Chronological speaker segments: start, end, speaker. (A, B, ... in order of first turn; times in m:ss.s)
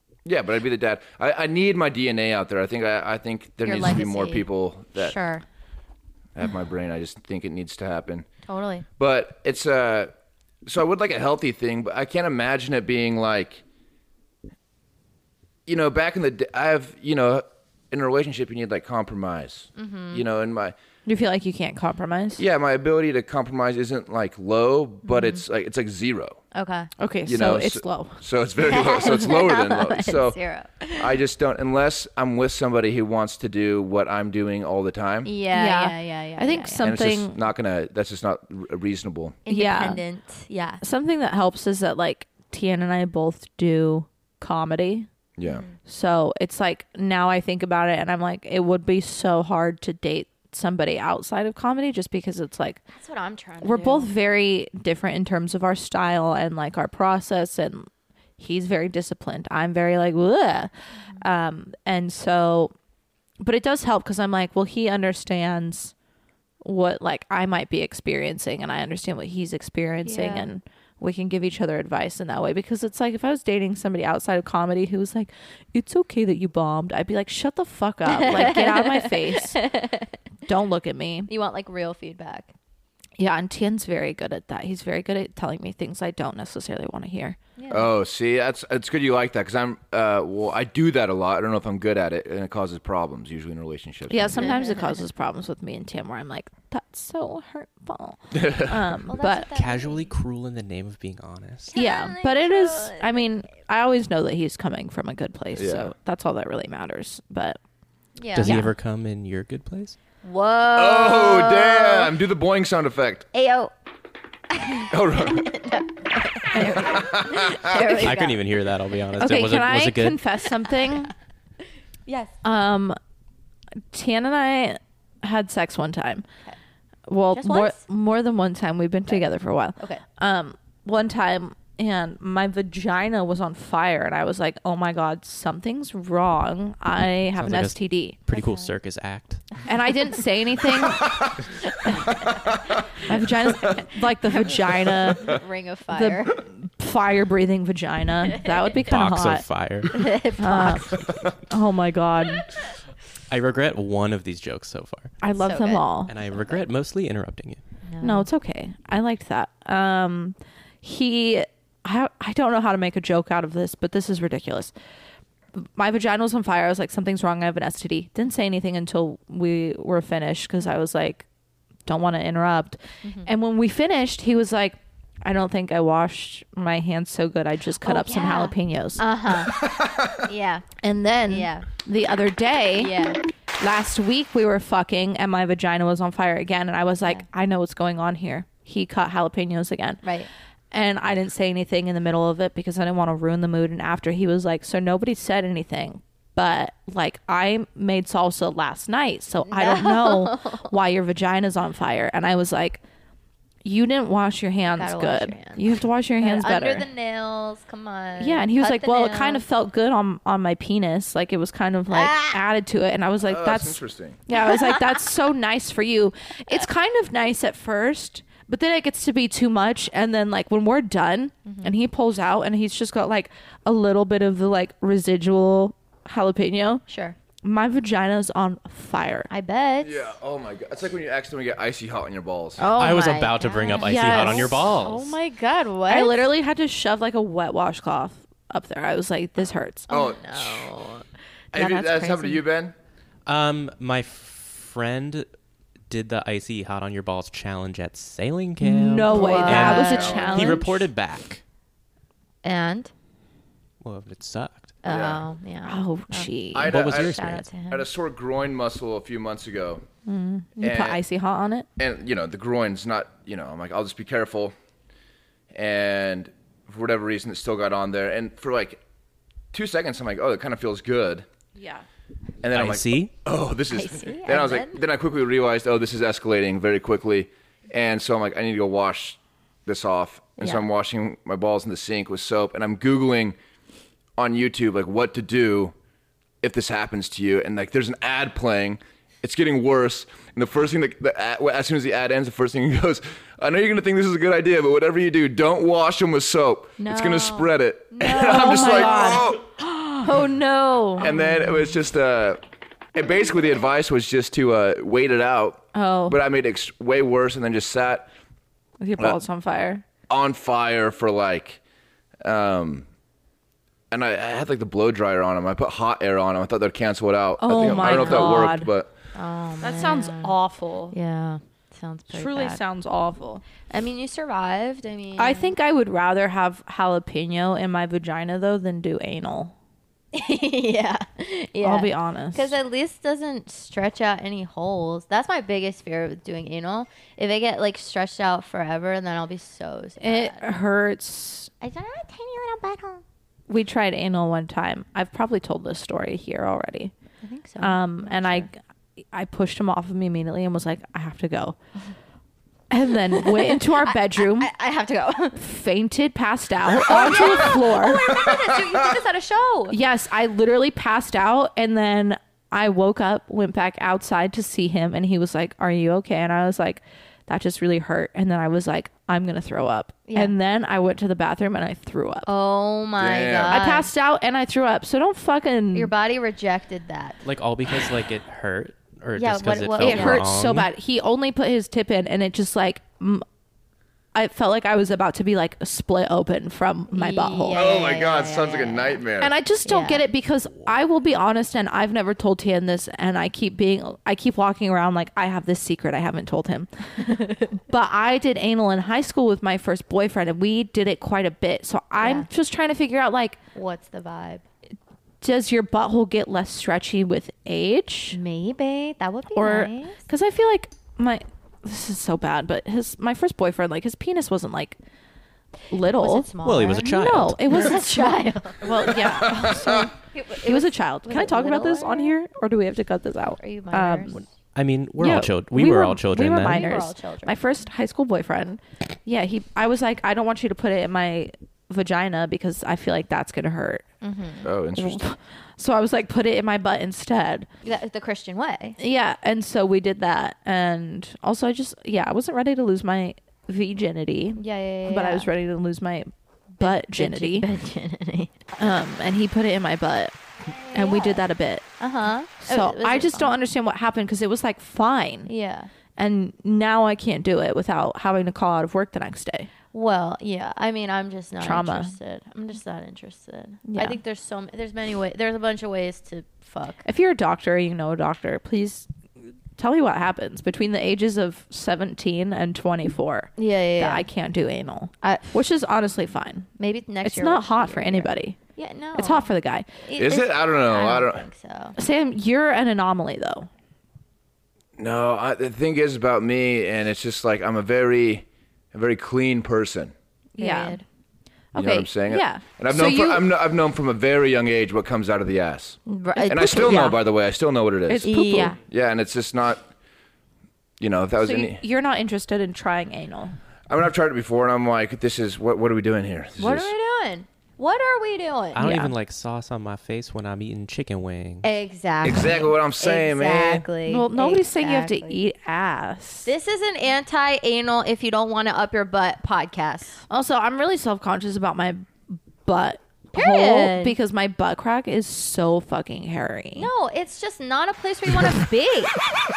0:00.2-0:05.2 A
0:03.6-0:05.4 B
0:06.4-0:08.3 A
0:08.5-0:08.9 B
0:09.0-0:10.1 A
0:10.7-0:13.6 A
0:15.7-0:20.8 A
0:19.8-0:20.2 B
0:21.1-0:22.4 C
0:22.4-0:26.4 A
0:26.5-0:26.9 B
0:27.0-0:28.2 C
0:27.3-0:30.4 A
0:28.6-0:31.1 B
0:31.0-0:35.3 A
0:35.2-0:36.9 B
0:35.5-0:37.4 C
0:36.8-0:39.4 A
0:39.4-0:40.8 B
0:39.5-0:40.0 C
0:40.8-0:45.1 C
0:45.4-0:45.6 A
0:45.5-0:45.7 B
0:45.8-0:52.8 C
0:52.9-0:54.1 B
0:53.6-1:02.7 C
1:03.4-1:05.9 C
1:06.6-1:19.6 C
1:10.1-1:10.5 B
1:18.1-1:20.1 B
1:20.5-1:21.3 C
1:21.3-1:22.5 B
1:23.2-1:27.4 C
1:27.6-1:27.9 B
1:27.7-1:34.5 A
1:34.1-1:39.5 C
1:34.4-1:35.0 B
1:38.3-1:39.0 A
1:39.1-1:40.1 B
1:39.6-1:41.8 D
1:41.7-1:43.2 B
1:41.8-1:47.6 C
1:45.6-1:45.9 A
1:48.2-1:48.6 B
1:48.4-1:50.0 D
1:48.4-1:48.7 C
1:50.2-1:52.1 B
1:50.8-1:53.3 A
1:53.3-1:53.7 B
1:54.5-1:58.5 B
1:54.9-1:55.5 A
1:56.5-1:57.0 C
1:56.8-1:57.9 A
1:57.9-2:00.2 D
1:59.2-2:01.1 C
2:02.1-2:02.3 B
2:02.4-2:03.0 C
2:03.9-2:06.2 C
2:07.1-2:18.2 C
2:07.3-2:07.8 B
2:17.4-2:19.6 D
2:18.3-2:18.7 B
2:19.7-2:21.2 C
2:21.0-2:21.4 A
2:21.8-2:22.1 C
2:22.1-2:22.8 A
2:23.0-2:25.4 C
2:25.2-2:26.4 B
2:25.9-2:29.5 C
2:28.3-2:28.6 B
2:28.8-2:30.1 D
2:29.9-2:31.0 B
2:30.4-2:32.5 C
2:33.3-2:35.1 D
2:35.2-2:36.1 C
2:35.4-2:36.6 B
2:36.1-2:37.6 D
2:37.9-2:38.3 B
2:38.0-2:44.7 C
2:45.6-2:51.3 C
2:51.9-2:59.0 C
2:53.0-2:53.3 B
2:57.8-3:00.7 B
2:59.6-3:00.2 A
3:00.8-3:03.0 C
3:01.3-3:01.7 B
3:02.8-3:03.2 B
3:03.6-3:10.0 C
3:10.0-3:10.3 B
3:10.7-3:22.8 C
3:19.5-3:20.7 B
3:23.6-3:26.9 C
3:24.7-3:25.6 B
3:26.2-3:29.4 B
3:28.2-3:46.8 C
3:31.9-3:32.4 B
3:33.2-3:34.2 A
3:34.5-3:34.8 B
3:41.4-3:41.7 B
3:46.9-3:47.2 B
3:47.4-3:49.3 C
3:49.3-3:50.1 B
3:49.8-3:52.6 A
3:52.6-3:56.2 B
3:52.7-3:55.2 D
3:53.7-3:54.7 C
3:55.9-3:59.9 C
3:59.9-4:00.7 A
3:59.9-4:01.1 B
4:01.5-4:02.7 A
4:01.5-4:02.4 C
4:03.3-4:05.3 D
4:05.9-4:11.4 D
4:08.6-4:10.8 C
4:09.1-4:10.6 B
4:09.3-4:10.4 A
4:12.4-4:12.9 B
4:13.8-4:14.7 D
4:14.8-4:17.9 B
4:14.9-4:15.3 A
4:15.6-4:16.7 C
4:16.5-4:19.8 A
4:16.7-4:17.5 D
4:20.1-4:21.7 C
4:20.6-4:21.0 A
4:21.8-4:24.5 A
4:25.5-4:28.8 A
4:29.5-4:31.3 A
4:31.6-4:31.8 C
4:32.4-4:43.4 A
4:32.5-4:33.1 D
4:33.7-4:34.8 B
4:40.4-4:40.6 B
4:44.2-4:45.8 A
4:46.4-4:59.4 A
4:56.8-4:59.3 B
4:58.1-5:01.1 C
5:01.0-5:02.4 A
5:03.0-5:08.1 A
5:05.7-5:06.2 C
5:08.8-5:09.8 C
5:10.1-5:11.6 A
5:12.2-5:12.9 A
5:13.9-5:18.9 A
5:17.4-5:18.7 C
5:17.6-5:18.5 B
5:19.1-5:20.4 B
5:19.6-5:21.0 C
5:20.9-5:22.6 B
5:22.1-5:23.4 C
5:23.7-5:25.5 B
5:25.2-5:29.5 C
5:30.1-5:40.5 B
5:31.6-5:32.6 C
5:40.0-5:41.5 C
5:41.6-5:43.0 B
5:43.5-5:46.9 C
5:47.2-5:48.5 B
5:47.6-5:48.6 C
5:49.1-5:51.6 C
5:52.7-5:54.5 C
5:53.2-5:55.4 B
5:55.4-5:58.1 C
5:56.8-5:59.8 B
5:58.2-5:58.6 A
5:59.7-6:12.3 C
6:10.1-6:10.3 B
6:12.3-6:13.9 B
6:13.0-6:13.6 A
6:13.5-6:15.9 C
6:15.7-6:17.2 B
6:17.2-6:20.7 D
6:19.2-6:20.2 B
6:19.8-6:23.2 C
6:24.2-6:27.6 C
6:26.9-6:29.0 B
6:27.5-6:29.3 A
6:29.2-6:43.4 C
6:29.6-6:30.0 B
6:37.0-6:37.4 B
6:42.0-6:42.3 B
6:43.5-6:44.4 B
6:45.2-6:48.2 C
6:48.1-6:50.0 B
6:49.4-6:54.8 C
6:55.7-7:04.2 C
6:55.8-6:58.6 B
6:56.4-6:57.5 D
6:58.9-6:59.9 A
7:00.1-7:02.1 B
7:03.4-7:04.2 B
7:04.6-7:06.7 D
7:05.0-7:13.8 C
7:06.4-7:07.4 B
7:14.0-7:14.5 B
7:14.4-7:15.0 A
7:14.8-7:17.5 C
7:17.6-7:18.8 B
7:18.8-7:27.5 C
7:24.4-7:25.3 B
7:26.6-7:28.6 B
7:28.6-7:30.2 C
7:30.4-7:31.2 B
7:30.7-7:31.6 C
7:31.8-7:33.4 B
7:32.4-7:35.3 C
7:35.3-7:35.7 B
7:36.0-7:39.5 C
7:39.7-7:46.8 B
7:41.4-7:42.0 C
7:43.6-7:44.0 C
7:46.8-7:48.9 C
7:49.6-7:56.5 C
7:53.4-7:54.1 B
7:55.0-7:55.3 B
7:56.6-7:59.3 B
7:57.0-7:58.4 C
7:59.0-7:59.7 C
7:59.8-8:01.8 B
8:00.0-8:01.3 A
8:01.8-8:03.5 C
8:04.8-8:09.9 A
8:10.4-8:10.8 B
8:10.4-8:10.8 C
8:11.5-8:13.3 C
8:11.6-8:18.1 A
8:15.9-8:17.0 B
8:17.9-8:18.6 C
8:18.0-8:18.6 B
8:18.6-8:19.7 A
8:20.8-8:21.6 A
8:21.2-8:23.4 C
8:23.7-8:26.7 A
8:26.4-8:28.6 B
8:28.6-8:31.5 D
8:28.6-8:28.9 C
8:31.4-8:35.2 B
8:32.0-8:33.6 A
8:33.8-8:36.3 C
8:36.3-8:40.0 B
8:40.1-8:46.7 C
8:43.2-8:44.0 B
8:46.6-8:49.0 B